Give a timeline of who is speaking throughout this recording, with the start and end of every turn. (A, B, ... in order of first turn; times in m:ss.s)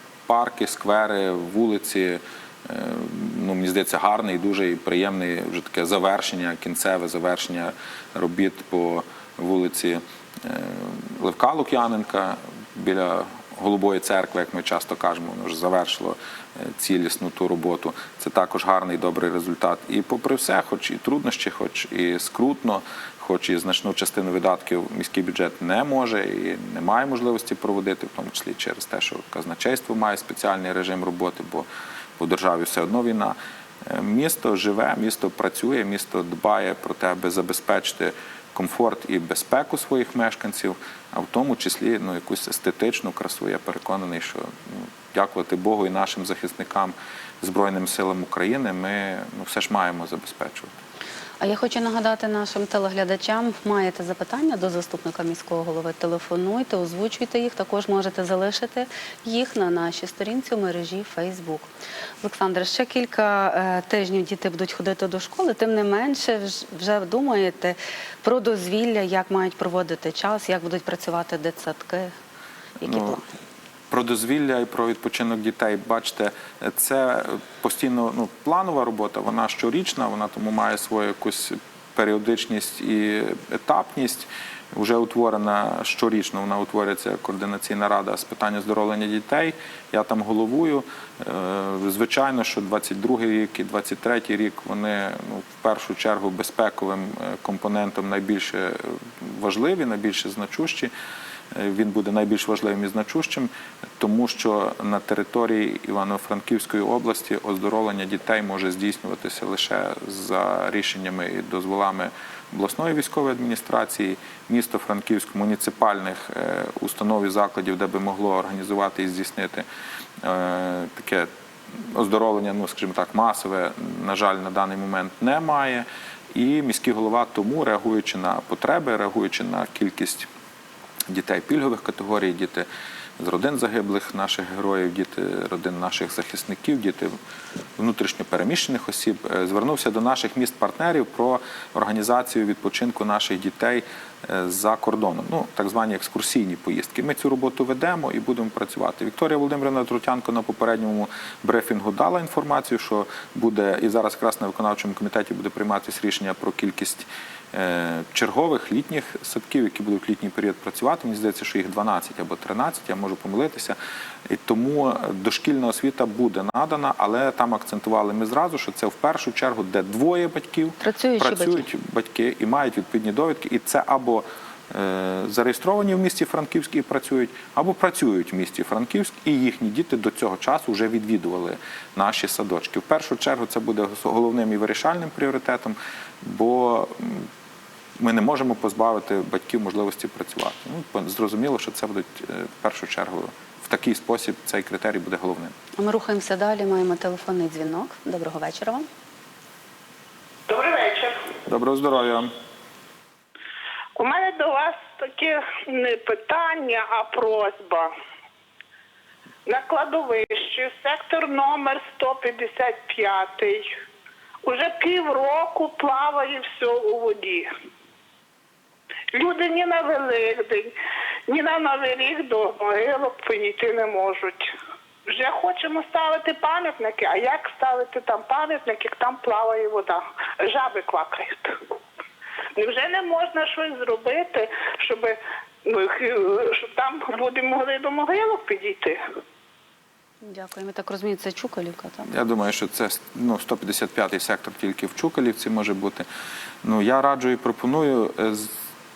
0:00.3-0:31.7 A
0:32.2-0:50.7 A
0:51.4-1:01.7 B
1:02.2-1:12.1 B
1:12.8-1:13.2 B
1:12.8-1:13.2 A
1:13.9-1:40.9 A
1:41.5-1:59.6 A
2:00.2-2:10.3 A
2:11.1-2:12.7 A
2:13.2-2:17.1 A
2:17.8-2:43.8 A
2:44.3-3:07.3 A
2:50.8-2:51.7 B
3:08.0-3:15.5 A
3:15.8-3:18.9 B
3:20.5-3:21.3 C
3:21.5-3:22.3 A
3:24.0-3:27.9 C
3:29.5-3:33.7 C
3:34.4-3:37.5 C
3:39.1-3:40.7 C
3:41.3-3:44.5 C
3:45.1-3:51.6 C
3:52.6-3:59.0 C
4:00.2-4:02.1 B
4:02.0-4:06.0 A
4:06.6-4:08.5 A